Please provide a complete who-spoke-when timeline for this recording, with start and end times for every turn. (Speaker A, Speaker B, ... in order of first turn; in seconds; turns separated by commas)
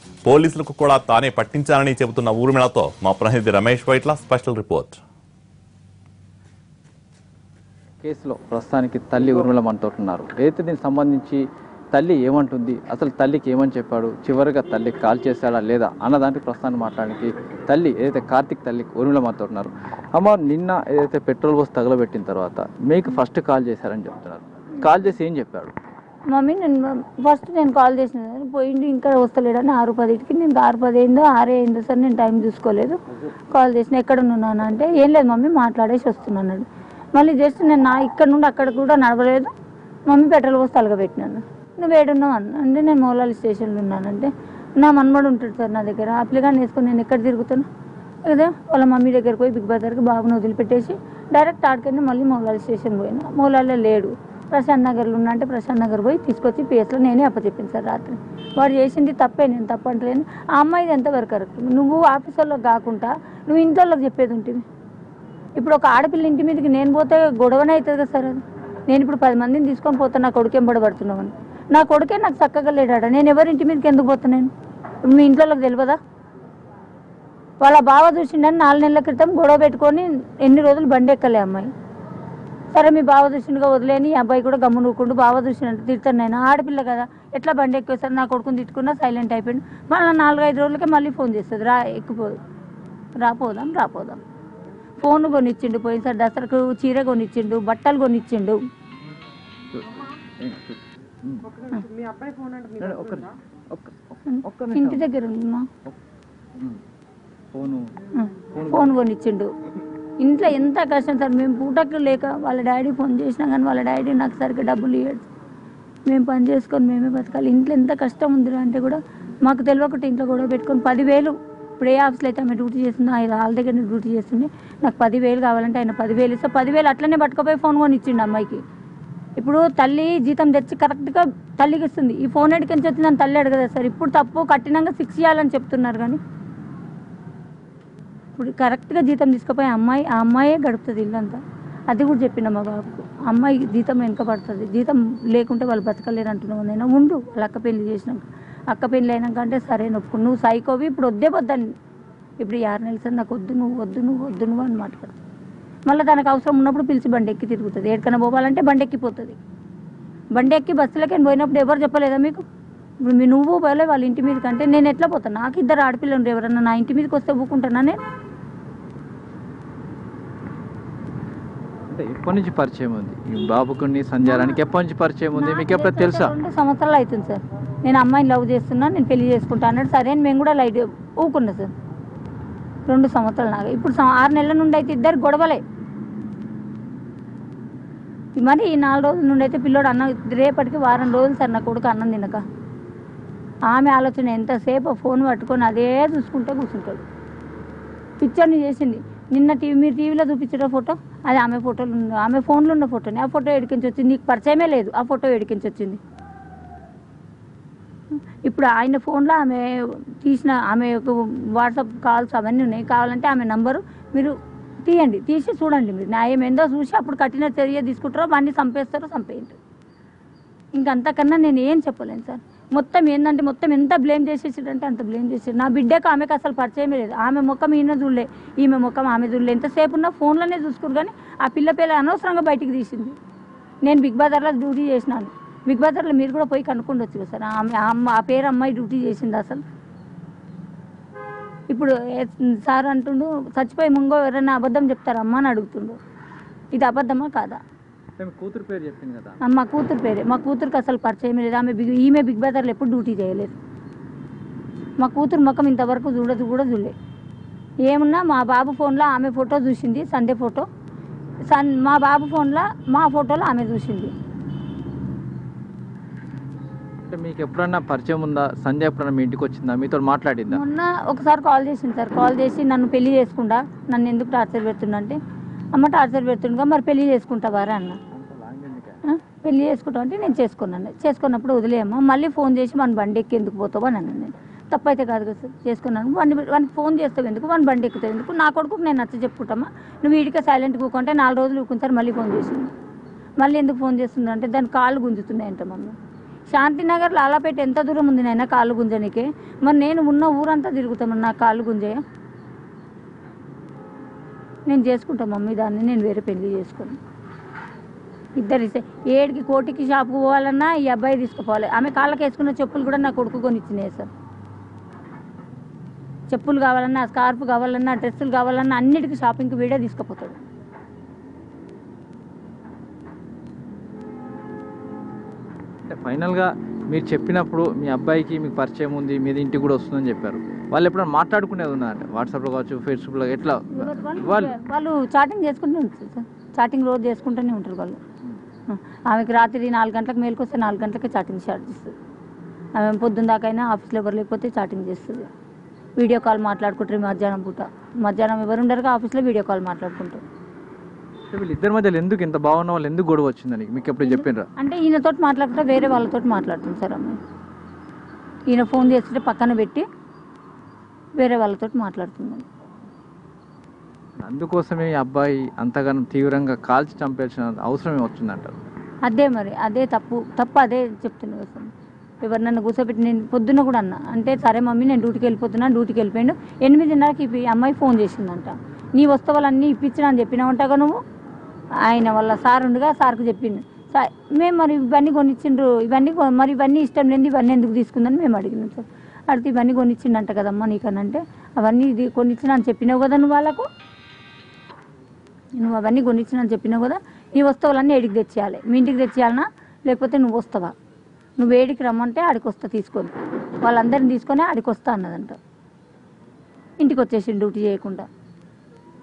Speaker A: 0.2-5.0, Speaker B: 8.0-11.4, Speaker B: 11.9-25.7, Speaker C: 26.3-33.0, Speaker C: 33.5-39.5, Speaker C: 40.1-47.7, Speaker C: 48.2-64.7, Speaker C: 65.6-74.5, Speaker C: 75.0-76.0, Speaker C: 77.6-81.7, Speaker C: 82.7-92.4, Speaker C: 93.2-94.2, Speaker C: 95.0-98.6, Speaker B: 99.7-101.5, Speaker B: 102.8-105.0, Speaker C: 104.3-105.7, Speaker B: 107.5-107.9, Speaker C: 108.2-109.5, Speaker B: 108.5-108.9, Speaker C: 110.2-115.3, Speaker C: 116.1-128.6, Speaker C: 129.4-136.2, Speaker C: 138.3-151.7, Speaker C: 152.4-155.2, Speaker C: 155.9-159.4, Speaker C: 160.3-162.4, Speaker C: 163.0-168.0, Speaker B: 171.9-176.3, Speaker C: 174.2-174.6, Speaker C: 175.3-181.7, Speaker C: 182.9-185.6, Speaker C: 188.4-192.4, Speaker C: 193.7-197.0, Speaker C: 198.2-206.0, Speaker C: 208.4-214.3, Speaker C: 214.8-219.6, Speaker C: 220.8-233.2, Speaker C: 233.8-239.6, Speaker C: 241.7-246.0, Speaker C: 246.7-247.6, Speaker B: 248.2-249.4, Speaker C: 249.4-253.6, Speaker C: 255.0-256.9, Speaker C: 257.9-260.7, Speaker C: 261.5-264.1, Speaker B: 267.1-270.6, Speaker C: 270.5-275.2, Speaker C: 275.7-278.0, Speaker B: 278.1-279.0, Speaker C: 279.1-292.7, Speaker C: 293.4-295.9, Speaker C: 296.5-302.0, Speaker C: 304.7-307.0, Speaker C: 308.4-314.1, Speaker C: 316.3-320.4, Speaker B: 325.9-334.6, Speaker C: 333.7-338.0, Speaker C: 338.7-341.9, Speaker C: 342.8-345.3, Speaker C: 346.0-350.2, Speaker B: 351.3-354.5, Speaker C: 354.0-357.2, Speaker C: 358.5-359.9, Speaker C: 361.2-362.5, Speaker B: 364.2-368.6, Speaker C: 369.1-371.7, Speaker C: 372.2-381.0, Speaker C: 381.9-393.7, Speaker C: 395.6-400.7, Speaker C: 401.4-405.4, Speaker C: 406.8-408.1